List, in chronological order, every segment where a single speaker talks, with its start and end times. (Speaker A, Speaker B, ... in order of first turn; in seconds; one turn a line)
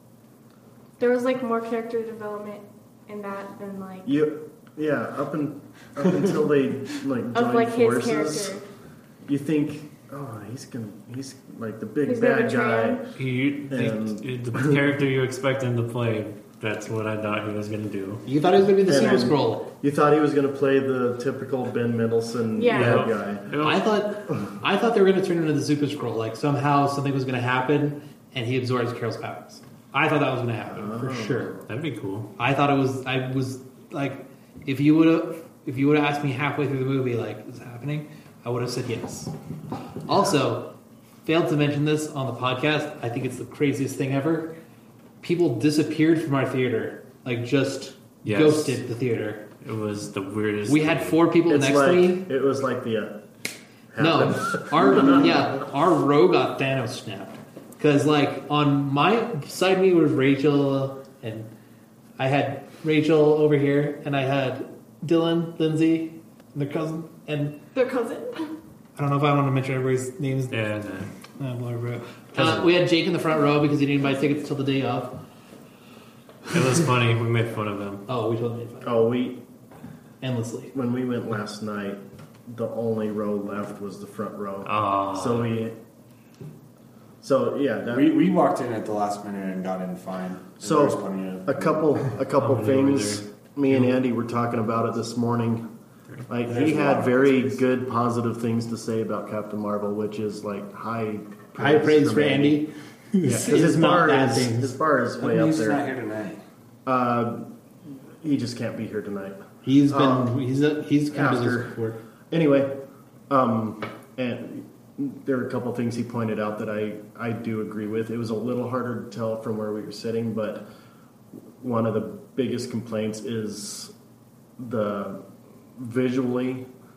Speaker A: 1.0-4.1
Speaker B: 4.0-8.5
Speaker A: 7.3-8.6
Speaker B: 9.2-13.0
Speaker A: 12.0-13.0
Speaker C: 13.1-18.2
Speaker B: 13.7-14.9
Speaker D: 18.2-19.7
Speaker B: 18.9-23.5
Speaker A: 22.5-23.1
Speaker C: 22.7-23.9
Speaker D: 23.6-31.6
Speaker B: 30.7-31.7
Speaker C: 31.7-32.3
Speaker D: 32.4-39.3
Speaker D: 40.0-40.7
Speaker D: 41.2-44.5
Speaker D: 45.2-49.5
Speaker C: 48.2-48.8
Speaker C: 49.6-51.2
Speaker D: 50.7-52.3
Speaker B: 51.5-53.2
Speaker B: 53.9-55.3
Speaker D: 54.0-61.5
Speaker D: 62.2-67.6
Speaker A: 67.7-68.5
Speaker D: 69.0-70.6
Speaker C: 70.5-71.1
Speaker D: 71.3-75.2
Speaker C: 72.3-72.7
Speaker C: 76.5-78.0
Speaker D: 78.1-79.1
Speaker B: 78.8-79.4
Speaker D: 80.2-80.7
Speaker B: 80.7-85.8
Speaker C: 84.6-85.5
Speaker B: 87.2-88.1
Speaker E: 87.9-92.1
Speaker B: 90.6-95.7
Speaker C: 92.3-93.9
Speaker B: 96.3-102.6
Speaker E: 96.4-97.6
Speaker D: 101.5-104.8
Speaker E: 103.2-103.7
Speaker B: 103.2-105.8
Speaker E: 105.2-106.4
Speaker B: 106.8-110.3
Speaker D: 109.6-112.0
Speaker B: 111.1-111.8
Speaker B: 112.3-112.7
Speaker B: 113.3-120.6
Speaker B: 121.6-123.9
Speaker B: 124.6-125.2
Speaker B: 125.8-126.7